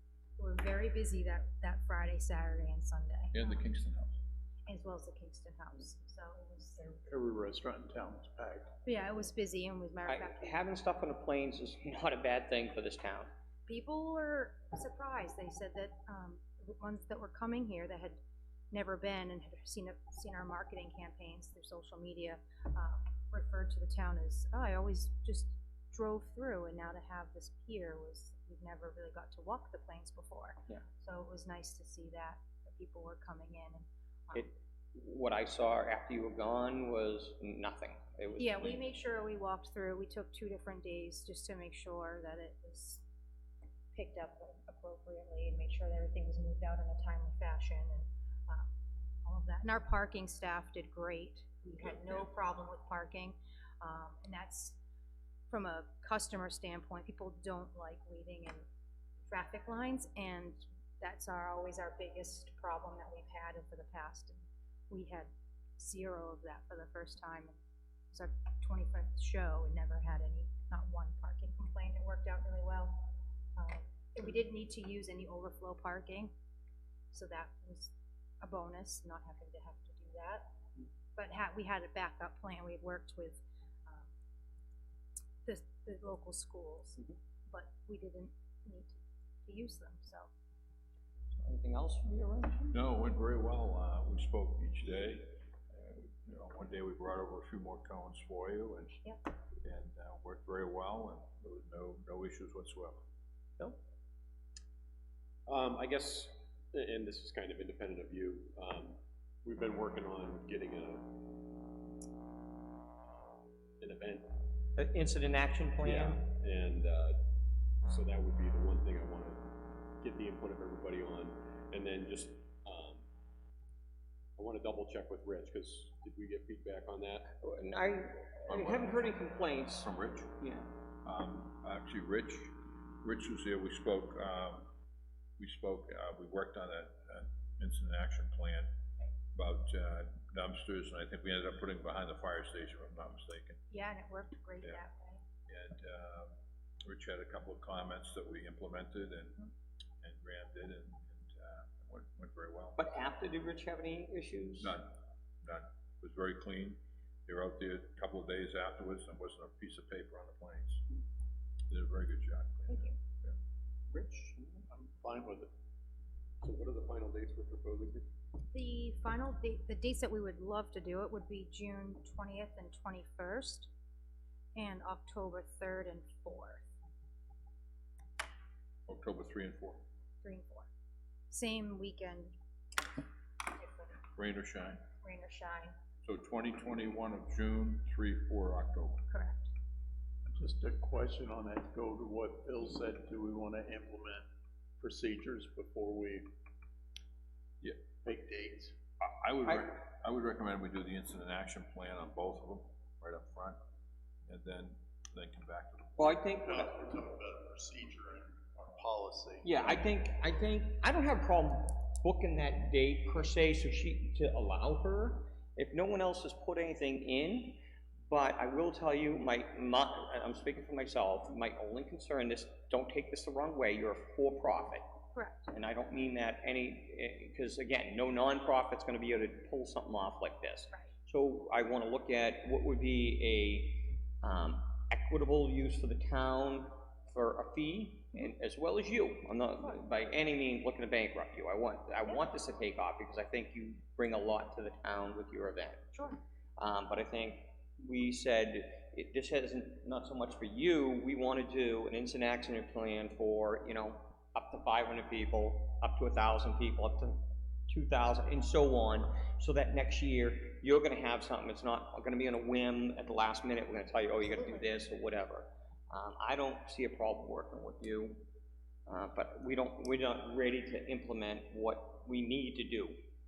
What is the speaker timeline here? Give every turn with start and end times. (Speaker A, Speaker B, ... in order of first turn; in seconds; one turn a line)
Speaker A: 0.4-3.6
Speaker B: 3.3-4.1
Speaker A: 4.7-7.0
Speaker C: 7.0-8.7
Speaker A: 8.8-10.6
Speaker D: 10.1-13.3
Speaker A: 13.7-18.2
Speaker A: 18.7-34.5
Speaker D: 34.3-38.8
Speaker A: 38.4-43.0
Speaker A: 43.9-48.7
Speaker A: 49.2-54.8
Speaker A: 55.5-58.6
Speaker A: 59.3-67.6
Speaker A: 68.1-76.3
Speaker A: 77.1-80.5
Speaker A: 81.1-84.1
Speaker A: 85.4-90.3
Speaker D: 91.4-92.8
Speaker B: 92.7-99.0
Speaker B: 99.6-103.0
Speaker E: 105.5-111.1
Speaker E: 113.0-114.4
Speaker D: 114.8-116.3
Speaker E: 115.8-117.2
Speaker E: 117.8-123.0
Speaker E: 124.4-127.3
Speaker D: 127.4-130.7
Speaker B: 128.5-129.1
Speaker B: 129.8-130.4
Speaker B: 131.0-134.7
Speaker B: 135.4-138.7
Speaker B: 139.3-143.6
Speaker A: 143.7-145.2
Speaker B: 145.5-146.3
Speaker B: 146.8-149.5
Speaker B: 150.0-152.8
Speaker D: 152.8-154.7
Speaker B: 154.6-160.8
Speaker B: 161.7-163.3
Speaker A: 162.7-162.9
Speaker C: 164.7-165.5
Speaker E: 166.4-168.1
Speaker A: 168.5-173.7
Speaker A: 174.5-176.6
Speaker B: 178.9-179.8
Speaker A: 180.2-180.7
Speaker A: 181.3-182.3
Speaker A: 183.4-184.0
Speaker B: 184.1-184.8
Speaker A: 185.0-185.7
Speaker B: 186.0-189.0
Speaker A: 189.1-189.5
Speaker C: 190.2-194.2
Speaker C: 194.8-196.2
Speaker C: 198.0-198.7
Speaker B: 199.0-203.6
Speaker B: 204.3-206.2
Speaker D: 206.0-206.8
Speaker C: 206.4-209.6
Speaker D: 209.4-224.8
Speaker A: 225.1-225.4
Speaker D: 225.5-245.9
Speaker A: 245.9-246.2
Speaker D: 246.6-268.3
Speaker A: 264.3-264.6
Speaker D: 268.9-273.0